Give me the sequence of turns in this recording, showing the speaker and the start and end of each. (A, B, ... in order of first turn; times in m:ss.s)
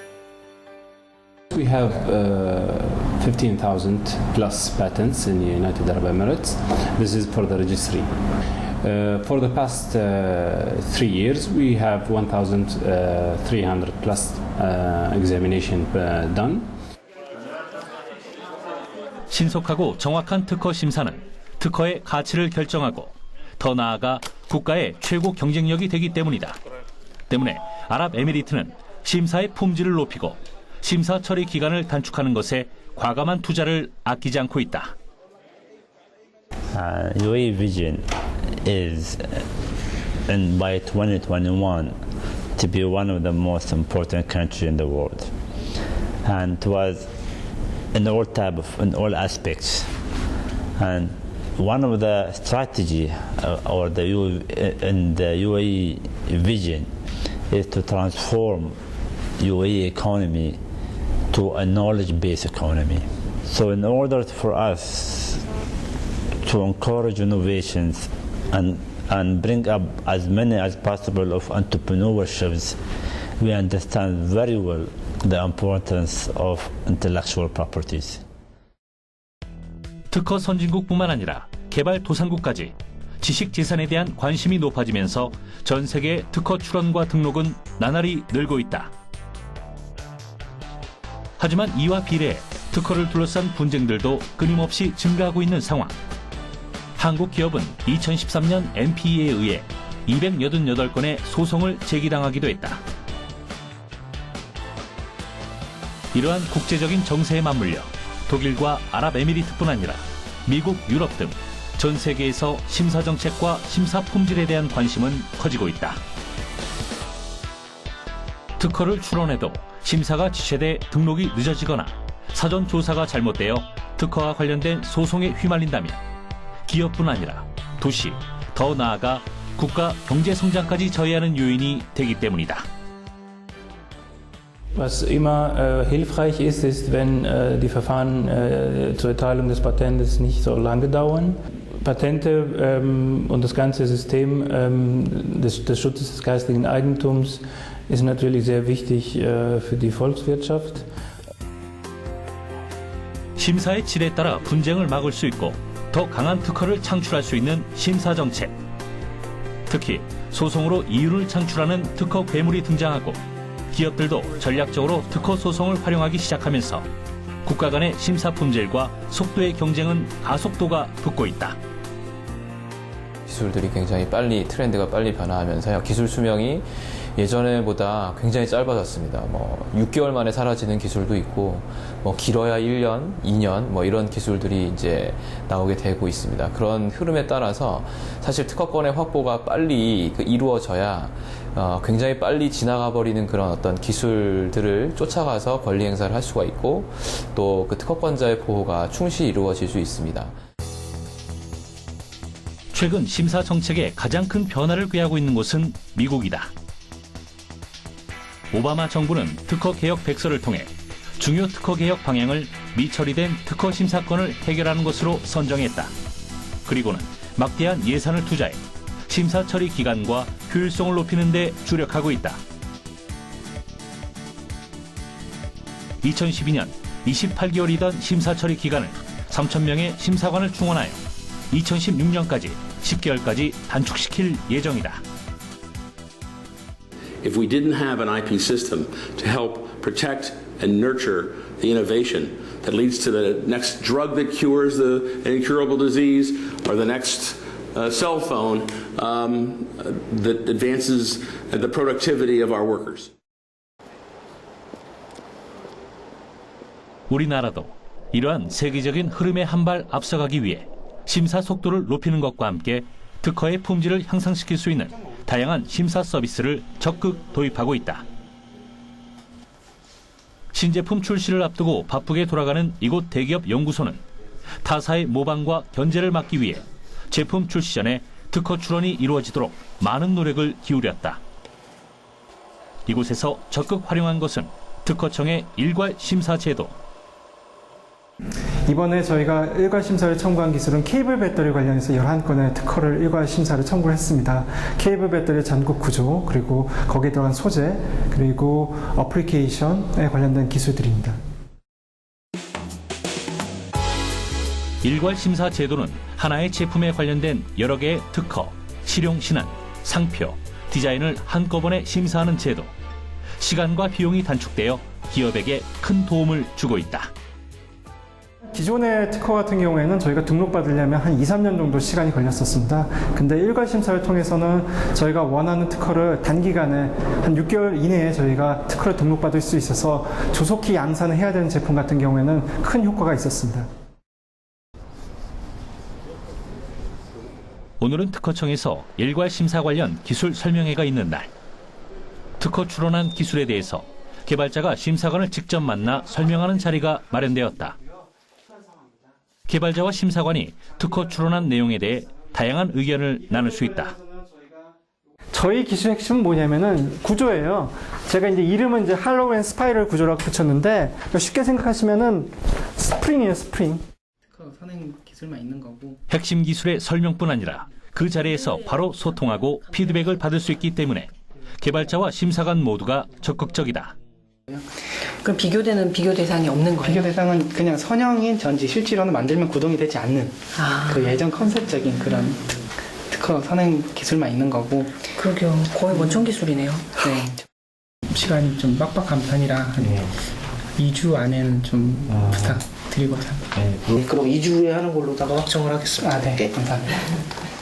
0:01.5-0:16.7 A
0:19.3-0:26.6 B
0:27.3-0:34.9 B
0:36.7-0:38.1 C
0:38.6-0:39.5 C
0:40.3-0:42.0 C
0:42.6-0:45.3 C
0:46.2-0:47.1 C
0:47.9-0:49.9 C
0:50.8-0:56.9 C
0:57.5-0:58.8 C
0:59.4-1:00.6 C
1:01.3-1:05.4 C
1:06.4-1:12.8 C
1:13.4-1:18.2 C
1:20.1-1:28.9 B
1:31.4-1:35.9 B
1:37.0-1:42.8 B
1:46.1-1:56.0 B
1:58.6-2:06.0 B
2:06.6-2:12.6 B
2:14.7-2:30.9 D
2:33.4-2:38.5 B
2:39.7-2:46.9 B
2:47.4-2:51.6 B
2:53.3-3:20.3 E
3:22.7-3:26.5 B
3:28.5-3:35.9 B
3:36.6-3:42.4 B
3:46.0-3:55.0 B
3:57.2-4:13.1 F
4:17.1-4:28.0 B
4:30.5-4:34.0 B
4:34.6-4:41.2 B
4:42.9-4:46.7 B
4:48.7-5:01.2 G
5:04.8-5:12.7 B
5:13.4-5:17.1 B
5:18.5-5:33.7 G
5:37.8-5:41.3 B
5:42.4-5:47.8 B
5:49.5-5:53.9 B
5:53.9-5:54.3 G
5:55.3-6:03.8 G
6:04.3-6:06.0 H
6:06.1-6:13.9 B
6:15.2-6:16.9 I
6:16.8-6:22.5 H
6:23.1-6:25.1 H
6:25.2-6:26.8 I
6:27.0-6:27.4 H
6:28.1-6:30.1 H
6:30.8-6:33.6 H
6:35.9-6:37.1 H